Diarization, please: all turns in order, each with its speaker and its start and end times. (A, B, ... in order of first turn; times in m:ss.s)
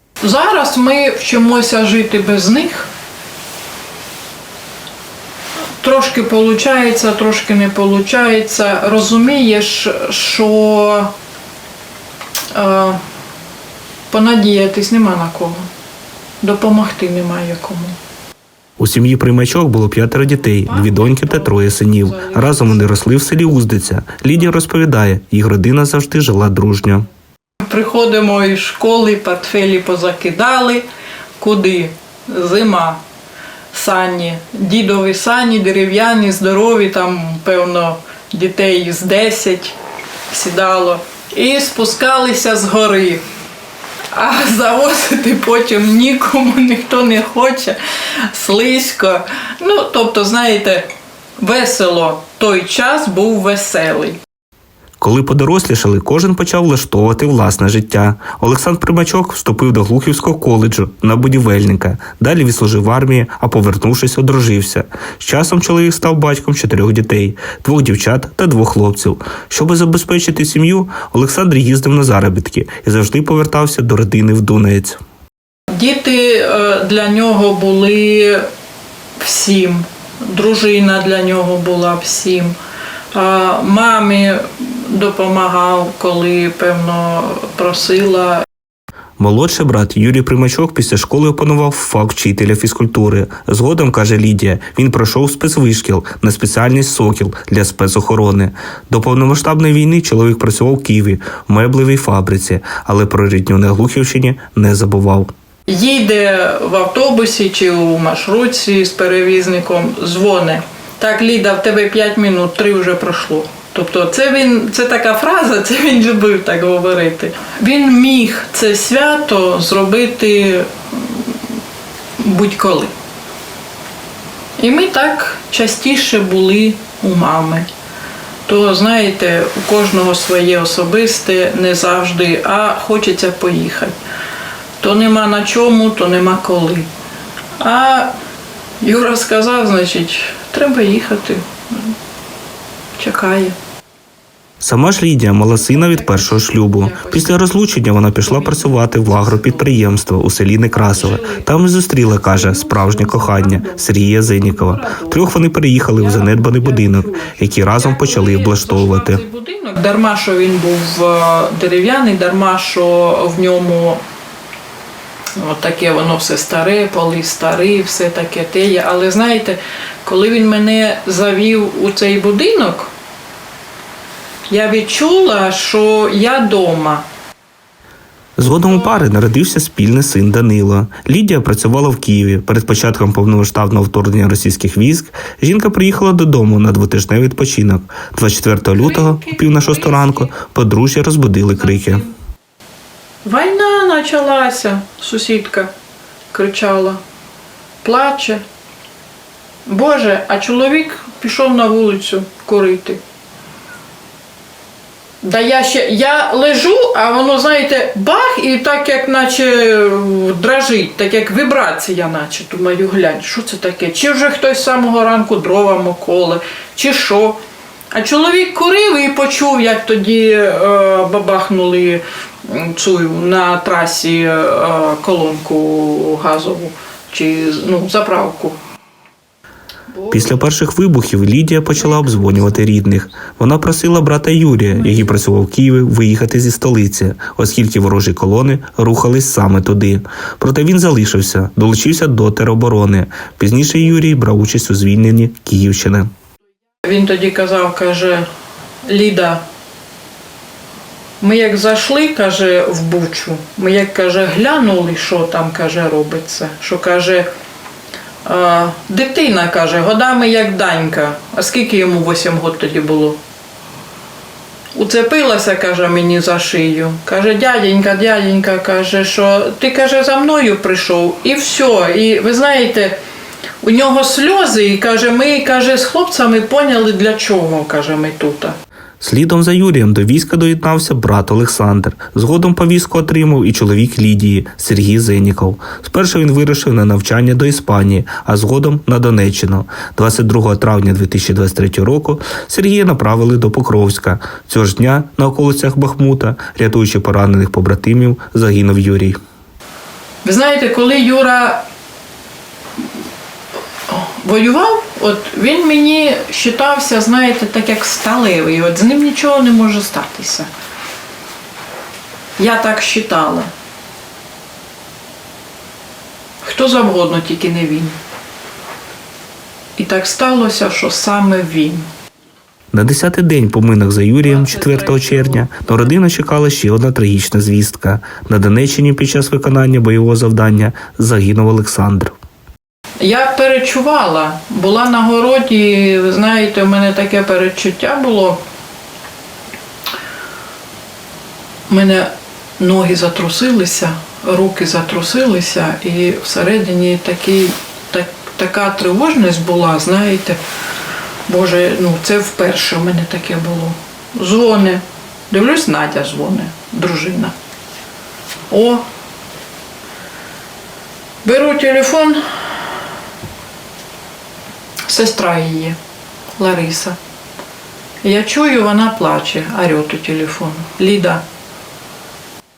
0:00.2-0:02.9 A
0:05.8-0:11.1 A
0:12.5-0:13.0 A
0:14.1-0:15.7 A
0:16.4-0:18.0 A
0:18.8-0:27.1 B
0:20.5-0:23.0 A
0:27.6-0:30.9 A
0:31.4-0:33.0 A
0:33.7-0:39.8 A
0:40.3-0:43.2 A
0:44.1-0:47.8 A
0:48.3-0:50.9 A
0:51.4-0:54.2 A
0:55.0-1:15.0 B
1:15.7-1:18.5 A
1:19.2-1:22.6 A
1:23.1-1:28.4 A
1:29.2-1:45.3 B
1:45.7-2:01.4 A
2:02.2-2:02.9 A
2:04.6-2:07.7 A
2:08.5-2:14.0 A
2:14.8-2:16.9 A
2:17.6-2:18.1 A
2:18.8-2:21.9 A
2:23.0-2:23.6 A
2:24.6-2:39.2 B
2:25.5-2:27.4 A
2:28.2-2:29.8 A
2:30.7-2:31.5 A
2:32.1-2:35.3 A
2:36.0-2:44.0 A
2:45.4-2:52.9 A
2:54.5-2:57.1 A
2:58.4-3:12.1 B
2:58.7-2:59.1 A
3:08.8-3:10.3 A
3:11.6-3:12.1 A
3:13.2-3:15.7 A
3:16.3-3:17.0 A
3:17.8-3:18.4 A
3:19.7-3:23.0 A
3:25.2-3:37.4 A
3:37.9-3:48.6 A
3:49.9-3:50.5 A
3:50.1-4:06.1 B
3:51.8-3:52.6 A
3:54.8-3:55.2 A
4:06.8-4:08.3 A
4:08.8-4:09.4 A
4:11.2-4:17.3 A
4:18.2-4:23.2 A
4:24.8-4:33.0 A
4:33.6-4:38.6 A
4:39.0-4:59.2 B
5:00.2-5:01.7 A
5:03.9-5:10.5 A
5:12.4-5:13.5 A
5:16.4-5:18.0 A
5:19.8-5:21.9 A
5:22.7-5:32.1 B
5:24.2-5:25.9 A
5:33.0-5:38.4 A
5:41.7-5:50.4 A
5:51.3-5:57.3 A
5:58.5-5:58.8 A
6:01.2-6:02.2 A
6:04.9-6:05.8 A
6:06.4-6:07.0 A
6:08.0-6:11.2 A